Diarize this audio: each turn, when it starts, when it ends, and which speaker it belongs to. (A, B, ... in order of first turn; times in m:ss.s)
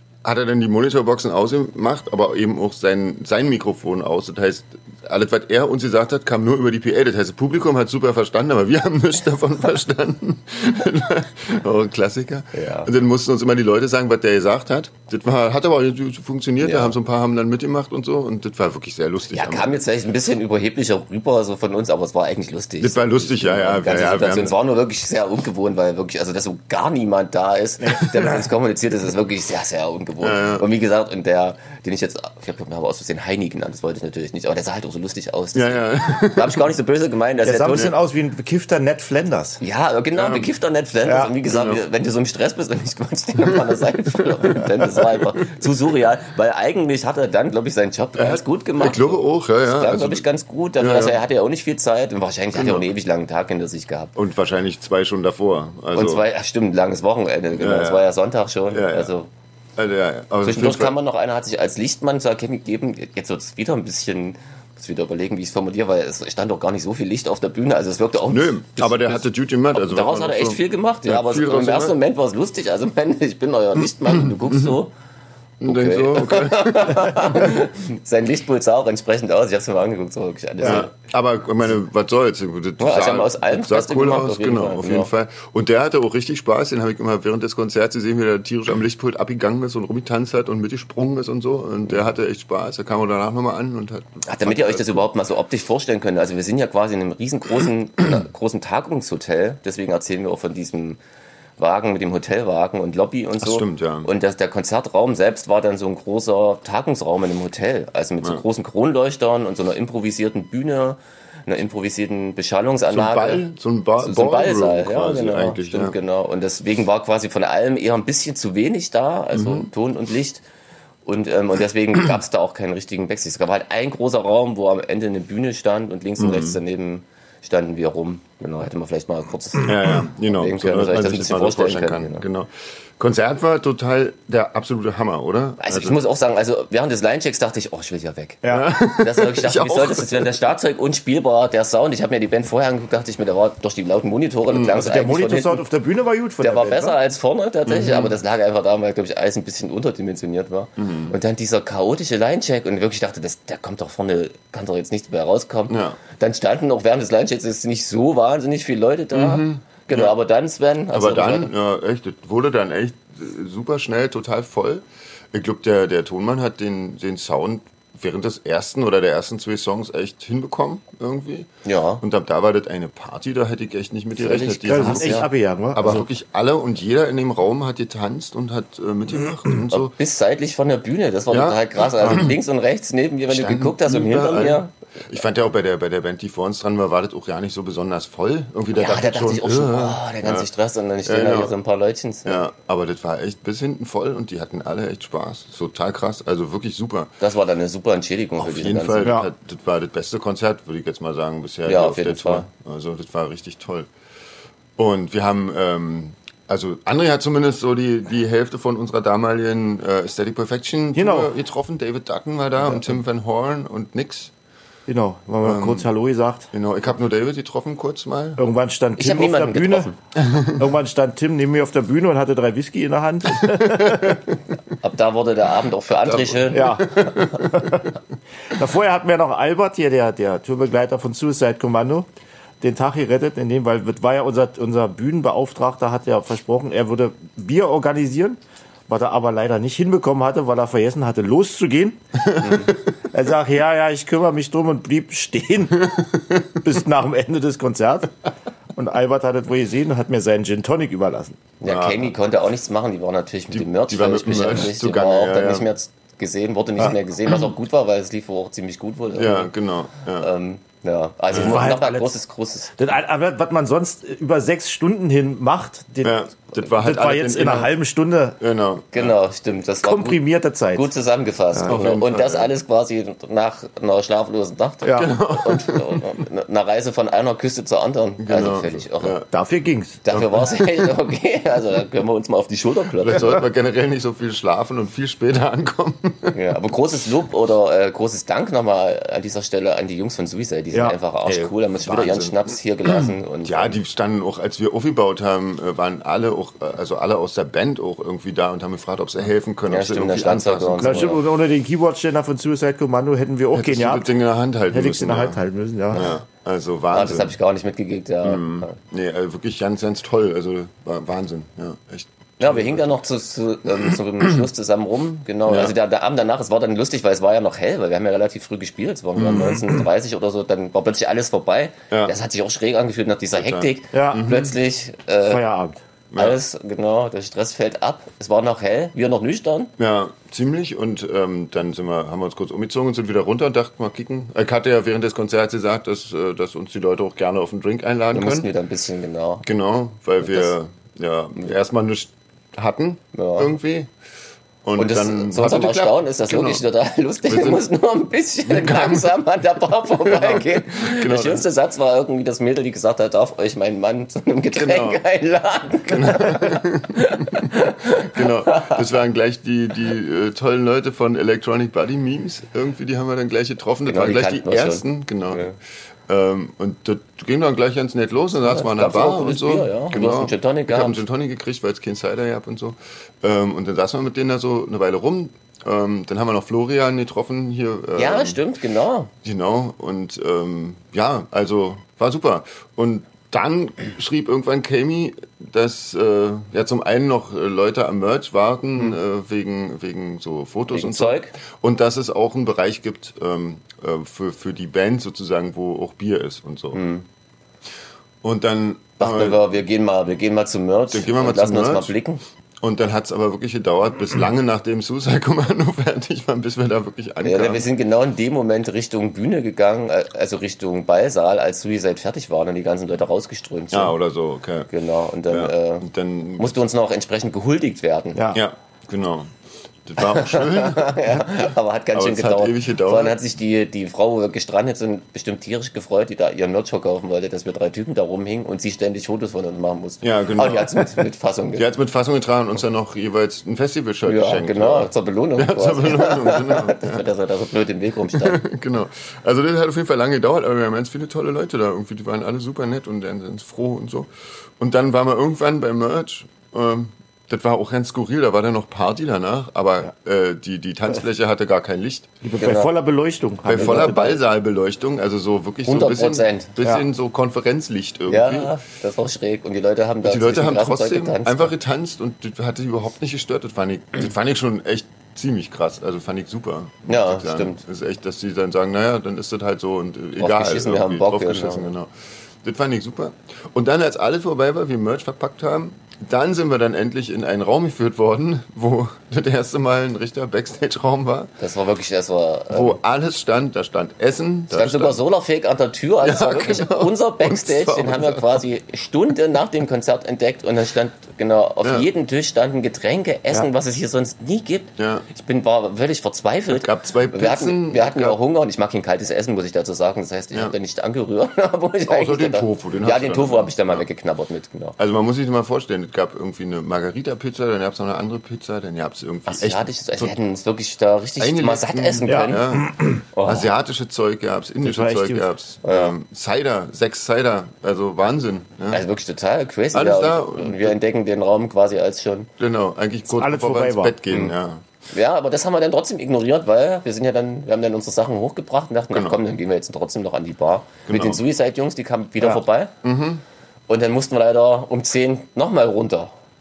0:00.2-0:19.8 A
0:12.5-0:12.9 B
0:16.6-0:17.0 B
0:19.3-0:37.9 B
0:22.8-0:24.6 A
0:30.2-0:30.7 A
0:35.6-0:36.6 A
0:37.4-0:39.6 C
0:39.6-0:54.2 B
0:40.1-0:40.5 A
0:41.0-0:41.3 C
0:41.5-0:41.8 A
0:44.5-0:45.6 A
0:48.2-0:50.3 A
0:50.8-0:51.2 A
0:52.5-0:52.9 A
0:54.2-0:56.2 A
0:55.9-0:59.3 B
0:57.6-0:58.1 A
0:58.7-0:59.1 A
0:59.8-1:01.0 A
1:00.4-1:14.9 B
1:08.3-1:12.0 A
1:14.1-1:14.8 A
1:15.6-1:17.6 A
1:15.6-1:20.9 B
1:20.6-1:20.9 C
1:20.6-1:35.0 A
1:22.8-1:25.1 B
1:34.2-1:41.0 B
1:41.6-1:53.4 B
1:43.4-1:44.1 A
1:52.9-1:56.0 A
1:54.0-2:00.4 B
1:59.3-1:59.7 A
2:01.0-2:12.2 B
2:06.2-2:06.6 A
2:09.6-2:16.0 A
2:15.6-2:25.6 B
2:18.4-2:18.7 C
2:18.5-2:20.3 A
2:24.5-2:24.8 A
2:24.7-2:27.0 C
2:26.4-2:41.5 B
2:27.7-2:28.2 A
2:30.8-2:31.2 A
2:35.7-2:36.0 A
2:39.1-2:40.2 A
2:40.9-2:59.9 A
2:51.6-2:52.0 B
2:54.2-2:55.3 B
2:54.7-2:56.1 C
2:59.7-3:04.7 B
3:01.3-3:02.4 A
3:02.0-3:02.3 C
3:03.3-3:10.5 A
3:08.8-3:12.4 B
3:11.0-3:11.5 A
3:12.2-3:17.1 A
3:17.2-3:19.2 B
3:18.4-3:23.9 A
3:19.0-3:19.3 C
3:21.6-3:22.5 B
3:24.8-3:34.3 A
3:31.0-3:31.3 C
3:34.9-3:36.5 C
3:35.4-3:35.9 A
3:36.5-3:38.4 A
3:38.4-3:39.9 C
3:39.0-3:40.0 B
3:40.2-3:40.6 A
3:40.6-3:44.2 C
3:44.8-3:47.3 B
3:46.0-3:47.6 A
3:46.5-3:47.9 C
3:48.5-3:52.1 C
3:52.6-4:02.0 C
4:02.4-4:02.7 B
4:03.1-4:06.0 C
4:06.6-4:08.1 C
4:08.8-4:11.4 C
4:11.6-4:19.5 B
4:11.6-4:12.1 A
4:13.5-4:15.7 A
4:19.1-4:20.3 A
4:20.2-4:22.7 B
4:21.3-4:22.2 C
4:21.3-4:21.6 A
4:22.8-4:28.4 C
4:26.0-4:27.8 A
4:28.4-4:29.1 A
4:28.9-4:39.2 B
4:29.8-4:30.9 C
4:31.5-4:31.8 C
4:31.7-4:32.5 A
4:34.8-4:35.1 C
4:35.0-4:36.1 A
4:38.2-4:39.3 A
4:39.3-4:40.0 C
4:40.0-4:43.5 B
4:40.1-4:40.5 A
4:43.0-4:46.4 A
4:46.3-4:53.8 B
4:51.2-5:01.2 A
4:59.7-5:01.2 B
5:00.8-5:04.1 C
5:03.5-5:05.4 A
5:04.7-5:06.1 C
5:05.9-5:07.4 A
5:06.9-5:08.8 B
5:08.2-5:12.9 A
5:12.4-5:25.4 B
5:15.5-5:15.7 A
5:19.2-5:19.8 A
5:23.4-5:24.6 A
5:23.9-5:24.3 C
5:25.3-5:25.8 C
5:26.1-5:26.4 A
5:26.2-5:29.7 B
5:29.8-5:38.5 A
5:38.1-5:39.4 B
5:39.4-5:43.9 A
5:40.2-5:40.5 B
5:43.1-5:43.5 B
5:44.6-5:46.6 A
5:44.8-5:58.8 B
5:47.3-5:47.6 A
5:48.5-5:49.2 A
5:50.0-5:51.5 A
5:54.5-5:55.0 A
5:55.9-6:05.5 A
6:03.9-6:05.6 B
6:06.1-6:18.4 A
6:08.4-6:11.0 B
6:18.0-6:19.1 B
6:19.2-6:36.8 A
6:30.7-6:31.4 B
6:36.7-6:37.1 B
6:38.2-6:39.5 A
6:39.0-6:42.2 B
6:40.9-6:41.9 A
6:42.6-6:47.7 A
6:47.2-6:54.0 B
6:53.7-6:54.7 A
6:54.7-6:55.9 B
6:55.3-6:56.6 A
6:56.4-6:58.2 B
6:58.2-6:58.4 C
6:58.3-6:59.3 A
6:59.9-7:03.2 A
7:00.0-7:11.6 B
7:10.0-7:17.0 A
7:14.1-7:18.4 B
7:18.1-7:32.1 A
7:32.2-7:34.2 C
7:32.4-7:32.7 B
7:33.5-7:38.6 A
7:33.6-7:34.1 B
7:35.7-7:36.6 B
7:38.1-7:41.5 B
7:40.0-7:51.9 A
7:46.9-7:47.6 B
7:50.2-7:51.7 B
7:52.4-8:01.3 A
8:01.4-8:02.8 B
8:02.5-8:05.0 A
8:04.5-8:24.8 B
8:06.0-8:08.4 A
8:11.6-8:11.9 A
8:14.8-8:15.1 A
8:16.5-8:18.2 A
8:21.9-8:23.9 A
8:24.8-8:30.2 A
8:29.3-8:33.5 B
8:31.2-8:38.8 A
8:32.1-8:33.0 C
8:34.6-8:35.3 C
8:35.6-8:35.9 B
8:38.7-8:42.3 B
8:39.7-8:40.8 A
8:42.4-8:44.6 A
8:43.1-8:44.0 C
8:44.9-8:52.7 B
8:48.9-8:49.2 A
8:50.9-8:51.2 A
8:52.8-8:53.2 A
8:53.7-8:56.1 B